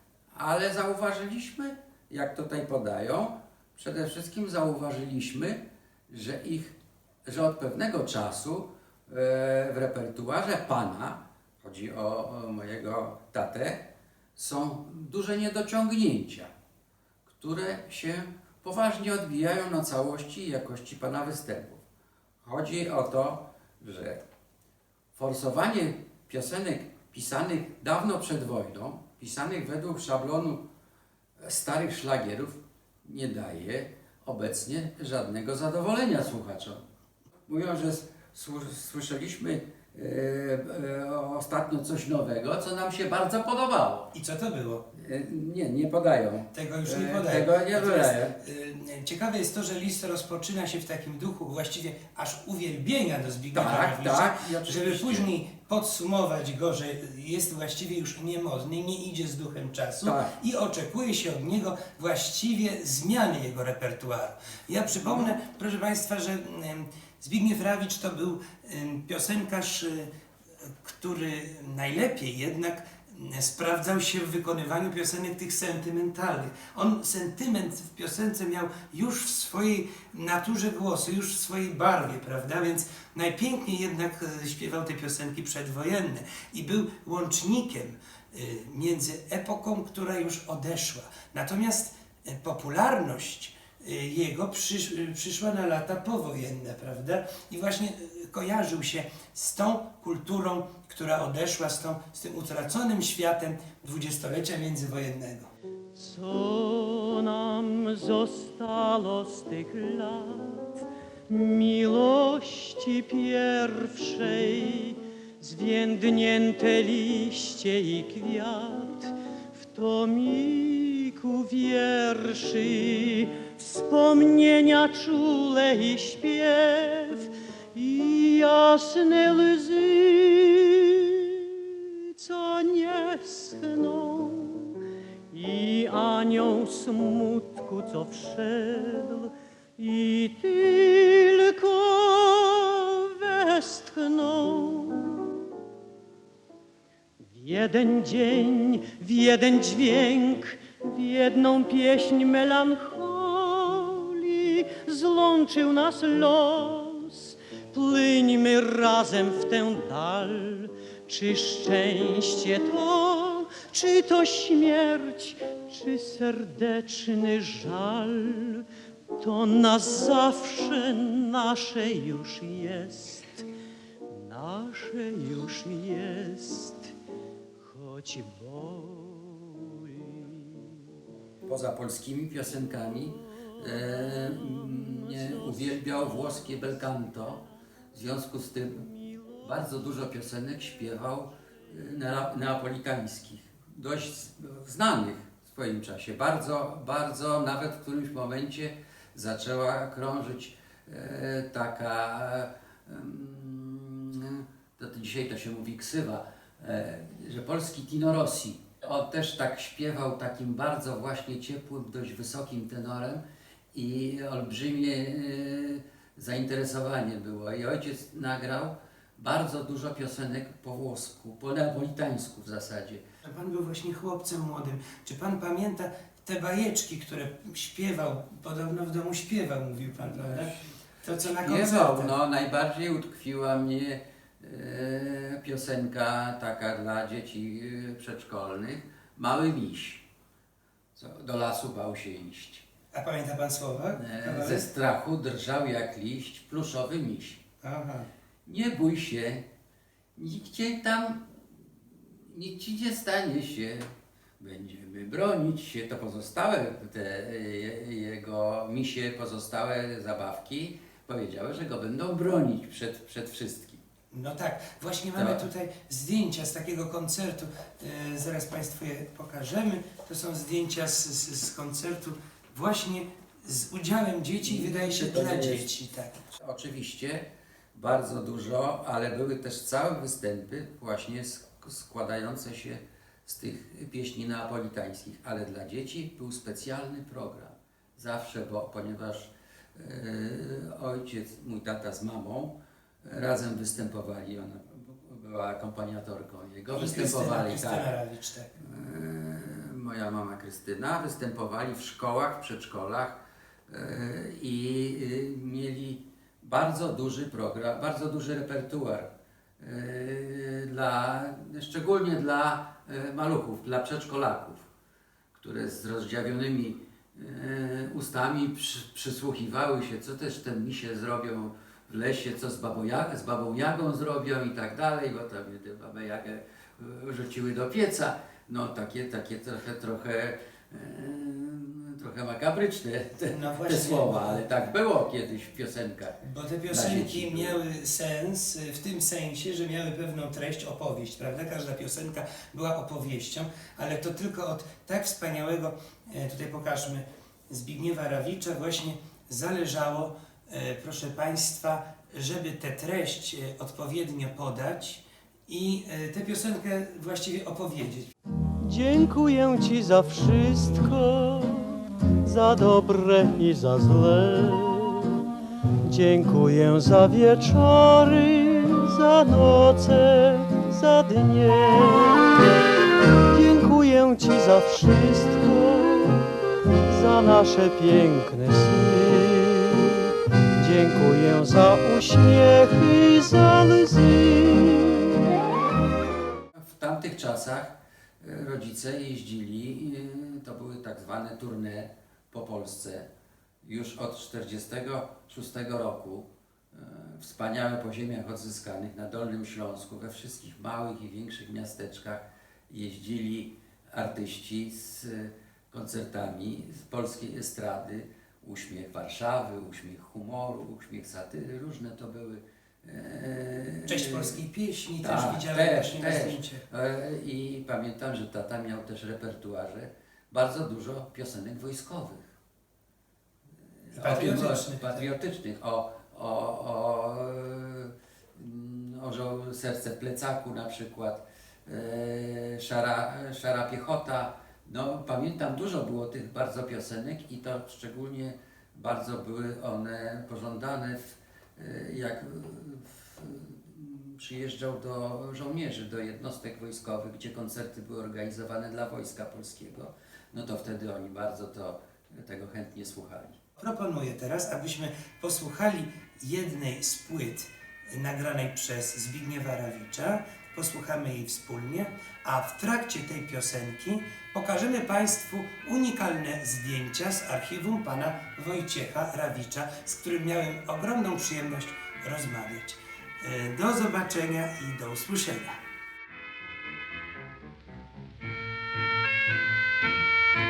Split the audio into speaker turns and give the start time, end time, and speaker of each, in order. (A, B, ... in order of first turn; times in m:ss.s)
0:00.3-0:13.8 A
0:14.3-0:16.5 A
0:17.2-0:21.8 A
0:22.4-0:24.2 A
0:25.1-0:30.6 A
0:31.4-0:36.8 A
0:37.5-0:44.1 A
0:44.1-0:44.8 B
0:44.9-0:48.4 A
0:46.5-1:10.1 B
0:53.5-0:55.3 A
1:00.0-1:00.3 A
1:10.6-1:45.5 B
1:46.0-2:25.4 C
2:27.3-2:53.4 C
2:54.1-2:56.9 C
2:57.6-3:00.8 C
3:01.4-3:33.2 A
3:04.8-3:05.7 C
3:33.7-3:43.0 A
3:43.2-3:52.1 B
3:50.1-3:50.6 A
3:51.2-4:00.0 A
4:00.9-4:02.7 A
4:02.9-4:04.6 B
4:04.0-4:07.4 A
4:07.6-4:08.1 B
4:08.4-4:09.4 A
4:10.2-4:11.3 A
4:12.1-4:23.8 A
4:24.1-4:36.2 B
4:25.1-4:25.4 A
4:34.4-4:35.7 A
4:36.3-4:57.9 A
4:56.7-4:58.5 B
4:58.6-5:03.2 A
5:03.7-5:09.1 A
5:09.6-5:14.6 A
5:15.3-5:36.2 A
5:33.3-5:34.4 B
5:36.2-5:58.1 B
5:36.7-5:37.6 A
5:58.6-6:05.2 C
6:05.8-6:12.5 C
6:13.2-6:16.3 C
6:16.9-6:25.4 C
6:26.5-6:33.0 A
6:33.6-6:54.4 A
6:53.9-6:56.6 B
6:55.0-7:02.2 A
7:03.8-7:33.4 A
7:03.9-7:05.0 B
7:33.6-7:55.6 B